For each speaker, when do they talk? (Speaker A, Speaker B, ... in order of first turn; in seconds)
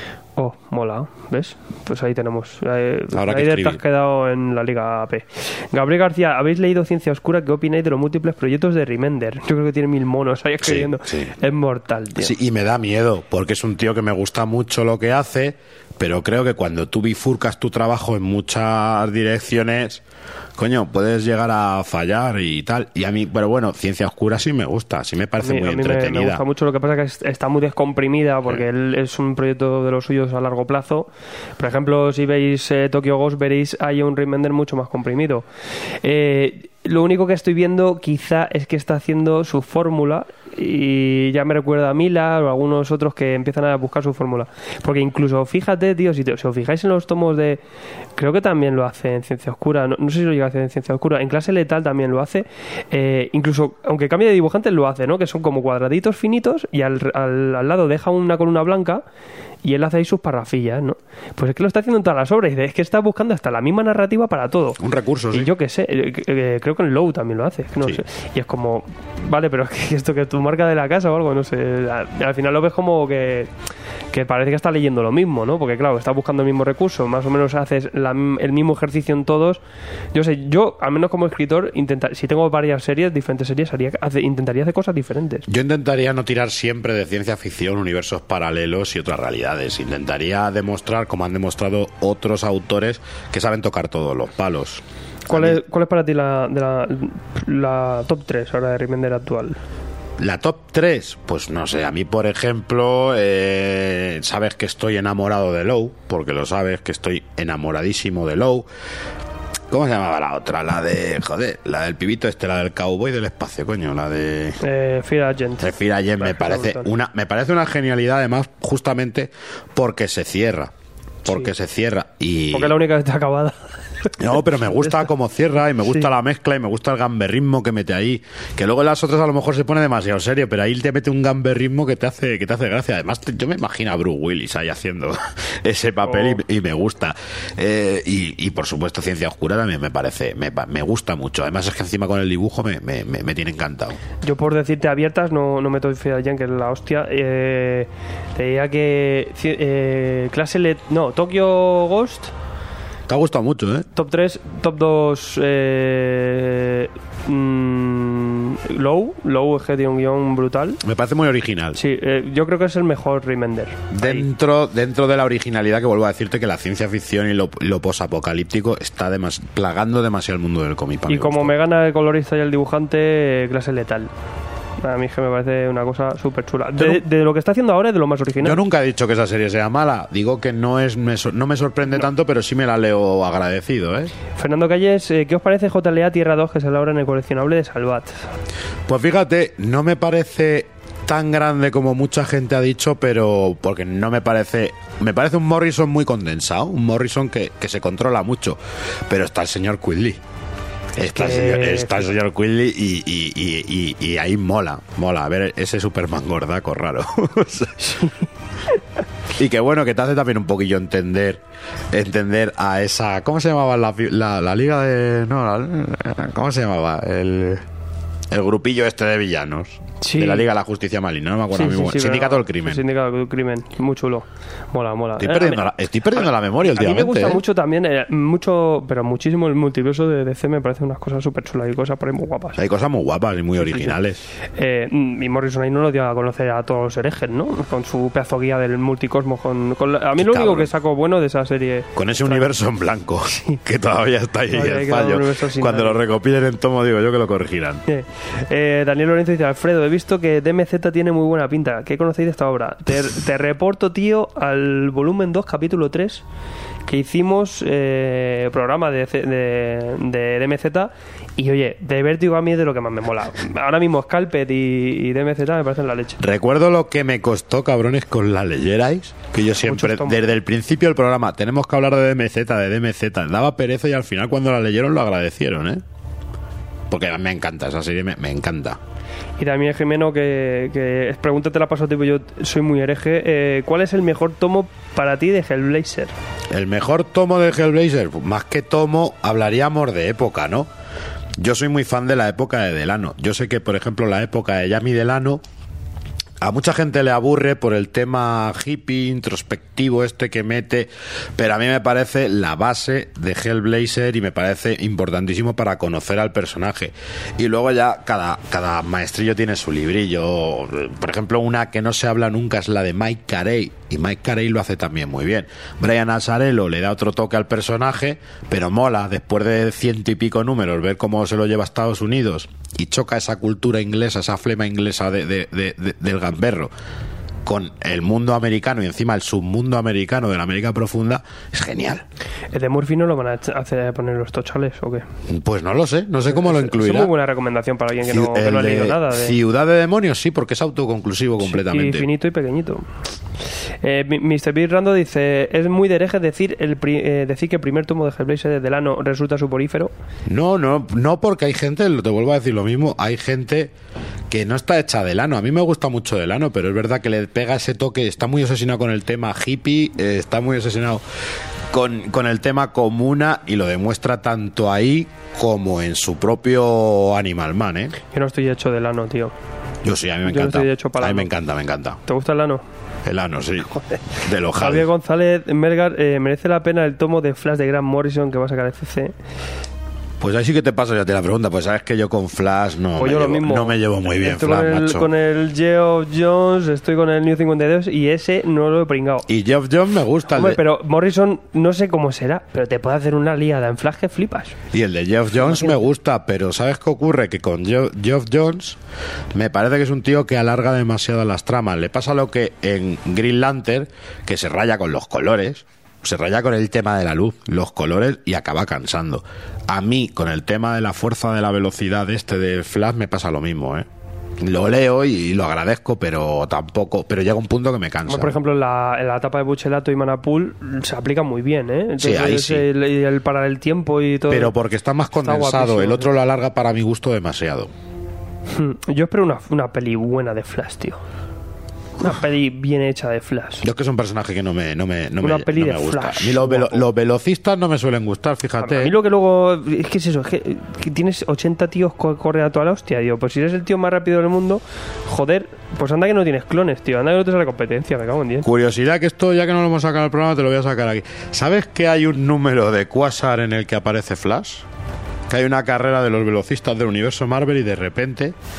Speaker A: 0.4-12.4, 25.4-47.6, 48.2-59.0, 59.6-64.8, 65.3-73.5, 74.1-79.6, 80.1-85.5, 95.3-99.6, 114.6-116.9, 122.5-125.1, 136.1-136.4, 144.2-152.3, 153.9-160.8, 161.8-164.3, 171.1-174.1, 174.8-178.6, 184.3-188.3, 201.0-202.1, 220.0-220.5, 221.5-225.6, 226.1-232.6, 233.6-233.9, 234.6-242.5, 244.5-246.0, 247.9-256.2, 256.9-266.2, 269.6-270.2, 279.4-286.1, 332.5-335.1, 336.3-339.4, 341.4-342.9, 343.8-349.9, 368.1-369.3, 370.2-371.3, 372.1-372.6, 374.5-379.1, 383.0-389.3, 390.3-394.6, 395.4-395.9, 418.1-424.6, 425.2-426.1, 428.5-431.0, 432.0-433.6, 435.2-436.9, 438.6-448.5
Speaker B: 3.1-3.8, 10.6-11.3, 12.2-20.0, 20.6-26.4, 64.8-65.5, 85.5-95.6, 100.2-108.7, 109.7-114.6, 115.6-120.7, 121.2-122.8, 124.2-144.0, 153.1-153.9, 160.8-161.8, 163.9-171.5, 178.4-184.1, 188.9-200.2, 201.0-208.1, 209.4-211.4, 211.9-217.6, 218.3-222.8, 225.2-227.4, 232.6-234.2, 240.2-240.7, 242.0-247.8, 266.2-275.8, 276.9-278.8, 286.5-290.7, 291.4-295.4, 296.4-326.7, 327.5-332.0, 335.3-337.1, 338.1-342.1, 350.3-353.7, 354.3-361.0, 361.7-368.0, 369.9-372.0, 373.1-374.9, 380.2-385.1, 389.3-390.6, 394.7-398.8, 399.4-413.9, 414.4-418.4, 422.0-422.7, 424.3-427.7, 433.6-439.0, 448.4-454.7, 455.3-458.4